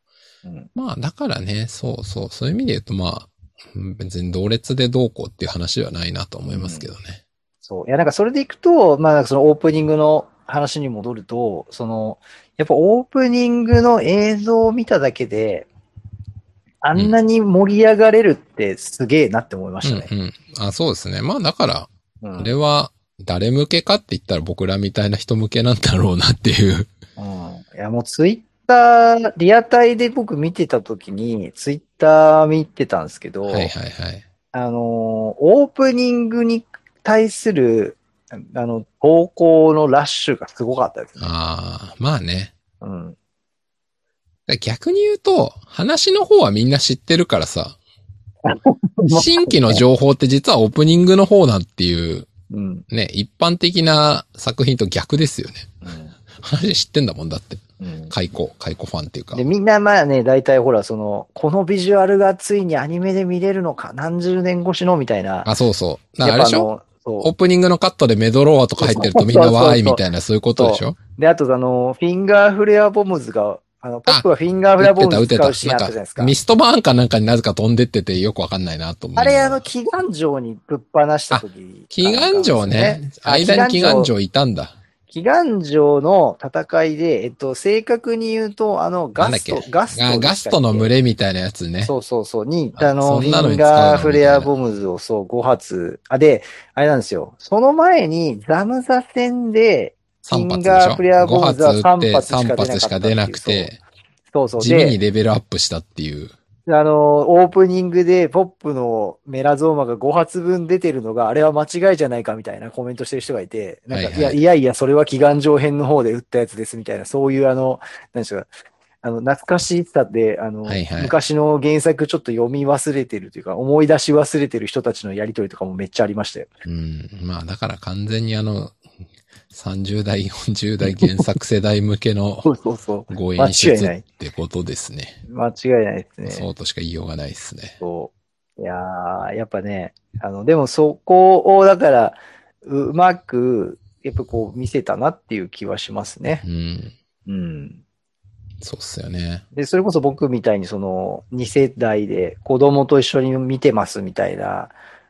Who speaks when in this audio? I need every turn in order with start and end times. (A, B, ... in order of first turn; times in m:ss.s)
0:00.4-0:00.7 A
0:00.7-0:07.2 B
0:06.5-0:06.9 A
0:07.6-0:15.7 A
0:16.8-0:20.1 A
0:19.8-0:26.9 B
0:22.2-0:22.5 A
0:27.2-0:33.7 A
0:33.5-0:34.2 B
0:34.5-0:41.3 A
0:41.2-0:42.5 B
0:42.8-0:43.2 A
0:44.5-0:47.8 B
0:48.4-0:49.8 A
0:49.1-0:52.3 B
0:52.5-0:52.8 A
0:52.9-0:55.7 B
0:55.8-0:56.1 A
0:56.4-0:59.4 B
0:57.8-0:58.1 A
0:59.3-1:05.5 A
1:05.4-1:06.7 B
1:06.2-1:07.3 A
1:07.2-1:11.0 B
1:08.8-1:10.0 A
1:10.6-1:16.3 A
1:14.8-1:19.6 B
1:19.2-1:24.1 A
1:21.3-1:24.7 B
1:25.1-1:30.9 A
1:29.2-1:31.9 B
1:31.8-1:43.7 A
1:32.8-1:34.5 B
1:40.2-1:43.8 B
1:44.3-1:45.0 A
1:44.6-1:46.3 B
1:46.7-1:58.5 A
1:53.9-1:54.4 B
1:59.0-2:06.5 A
2:00.6-2:01.1 B
2:06.6-2:08.8 B
2:09.5-2:12.5 B
2:10.8-2:11.3 A
2:12.4-2:14.0 A
2:13.1-2:15.2 B
2:15.2-2:16.5 A
2:16.3-2:17.8 B
2:17.8-2:26.4 A
2:26.4-2:26.9 B
2:27.2-2:27.8 A
2:28.6-2:29.4 B
2:29.5-2:34.7 A